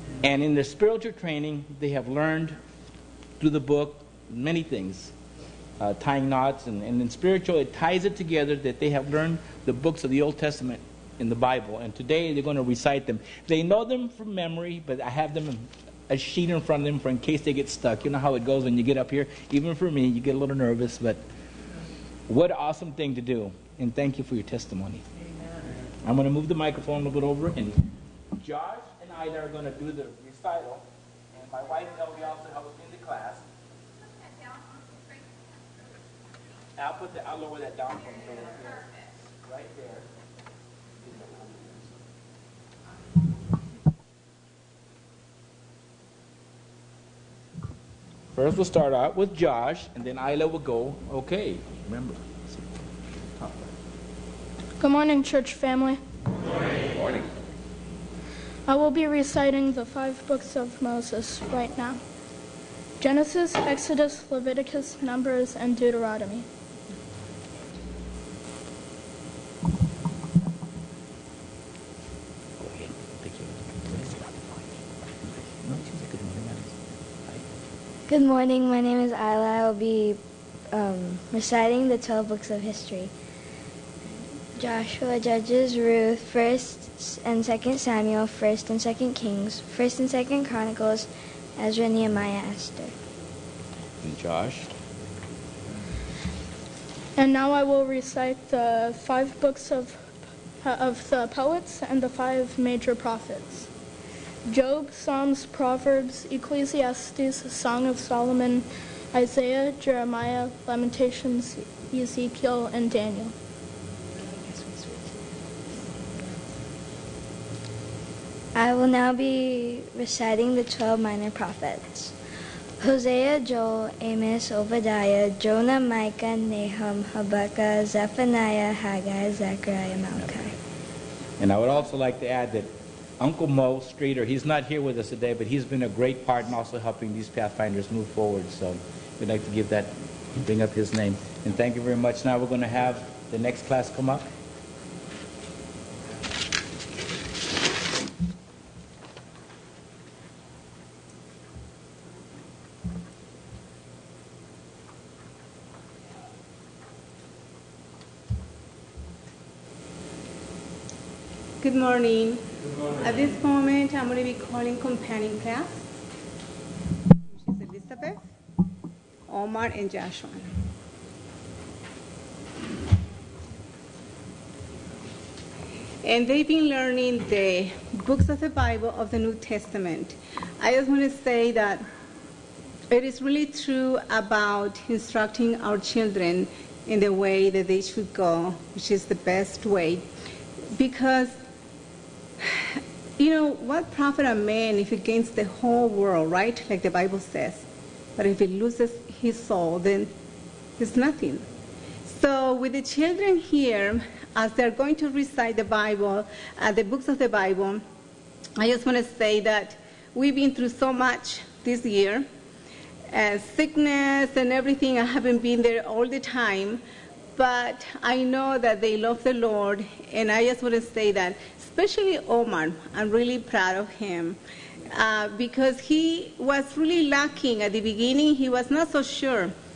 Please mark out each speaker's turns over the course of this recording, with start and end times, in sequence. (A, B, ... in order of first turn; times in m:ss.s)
0:00.2-0:02.6 A
0:03.4-0:05.1 A
0:05.8-0:21.2 A
0:22.3-0:25.0 A
0:26.0-0:27.8 A
0:28.4-0:33.5 A
0:36.8-0:40.1 A
0:48.3-0:52.7 A
0:54.8-0:56.0 B
0:58.7-1:02.0 B
1:03.0-1:06.5 B
1:12.6-1:14.5 A
1:15.5-1:17.4 A
1:18.1-1:20.2 C
1:20.7-1:23.1 C
1:24.6-1:32.9 C
1:34.0-1:34.7 A
1:37.2-1:43.7 B
1:44.5-1:53.3 B
1:58.6-2:02.2 C
2:02.8-2:10.5 C
2:11.4-2:24.3 A
2:41.6-2:42.4 D
2:43.0-2:45.8 D
2:47.3-2:48.2 D
2:49.3-2:50.5 D
2:56.0-3:01.8 D
3:02.9-3:10.1 D
3:10.7-3:11.4 D
3:12.4-3:17.6 D
3:18.2-3:20.1 D
3:20.8-3:21.5 D
3:22.1-3:27.8 D
3:28.6-3:32.3 D
3:33.1-3:36.8 D
3:37.4-3:49.5 D